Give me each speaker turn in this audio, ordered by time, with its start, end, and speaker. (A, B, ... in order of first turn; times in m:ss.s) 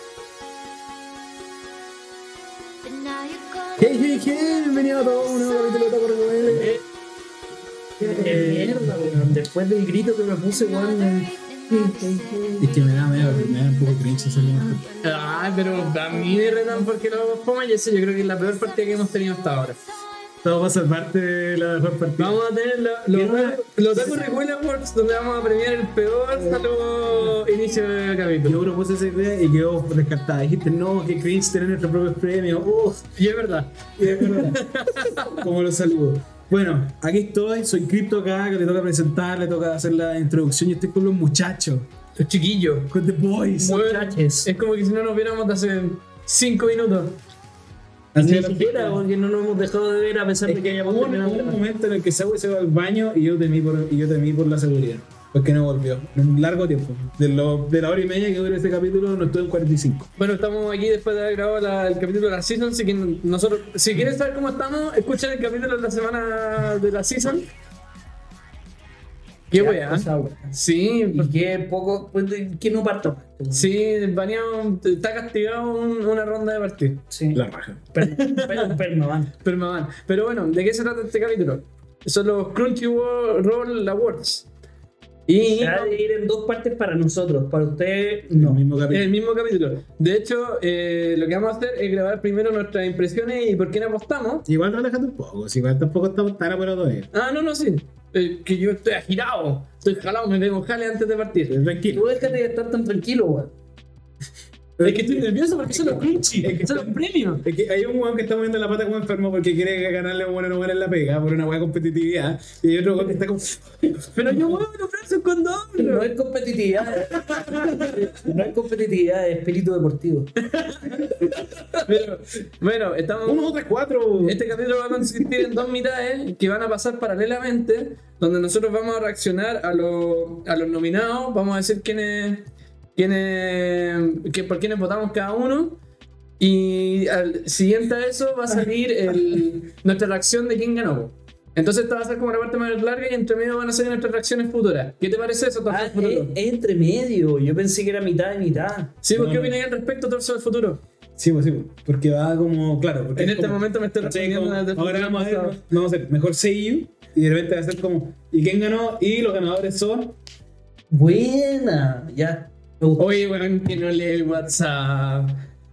0:02.8-0:06.8 A
0:03.8-0:06.8 B
0:06.5-0:06.8 C
0:08.0-0:09.3 B
0:08.0-0:12.7 D
0:08.1-0:08.9 C
0:10.5-0:17.4 A
0:12.6-0:14.8 B
0:15.0-0:19.8 C
0:18.2-0:20.6 A
0:20.4-0:22.4 B
0:22.2-0:28.6 C
0:23.1-0:24.2 B
0:26.6-0:27.9 A
0:28.4-0:33.1 B
0:33.2-0:35.4 C
0:34.0-0:34.6 B
0:35.2-0:41.9 B
0:42.2-0:42.9 C
0:42.9-0:43.8 B
0:43.6-0:44.5 D
0:43.6-0:47.2 C
0:48.2-0:49.0 B
0:48.2-0:51.6 D
0:50.4-1:00.1 B
1:00.2-1:07.5 C
1:09.5-1:11.3 C
1:09.6-1:10.6 D
1:11.1-1:13.7 D
1:13.5-1:17.0 C
1:17.1-1:17.4 D
1:17.3-1:17.9 B
1:17.9-1:19.3 D
1:18.0-1:18.7 C
1:19.4-1:24.5 C
1:25.3-1:26.0 C
1:25.5-1:28.8 D
1:28.3-1:29.1 B
1:28.9-1:34.5 C
1:34.5-1:37.1 B
1:37.1-1:41.6 C
1:41.5-1:42.3 B
1:41.9-1:43.5 D
1:44.8-1:54.4 B
1:44.8-1:47.4 C
1:54.1-1:56.1 C
1:55.8-2:00.3 D
1:56.9-1:58.1 C
2:00.4-2:03.6 C
2:03.2-2:04.4 B
2:04.2-2:15.8 C
2:16.4-2:26.4 C
2:25.7-2:29.0 D
2:29.0-2:30.8 C
2:29.1-2:29.6 B
2:31.2-2:40.2 B
2:33.2-2:35.6 C
2:40.9-2:43.1 D
2:43.0-2:45.5 C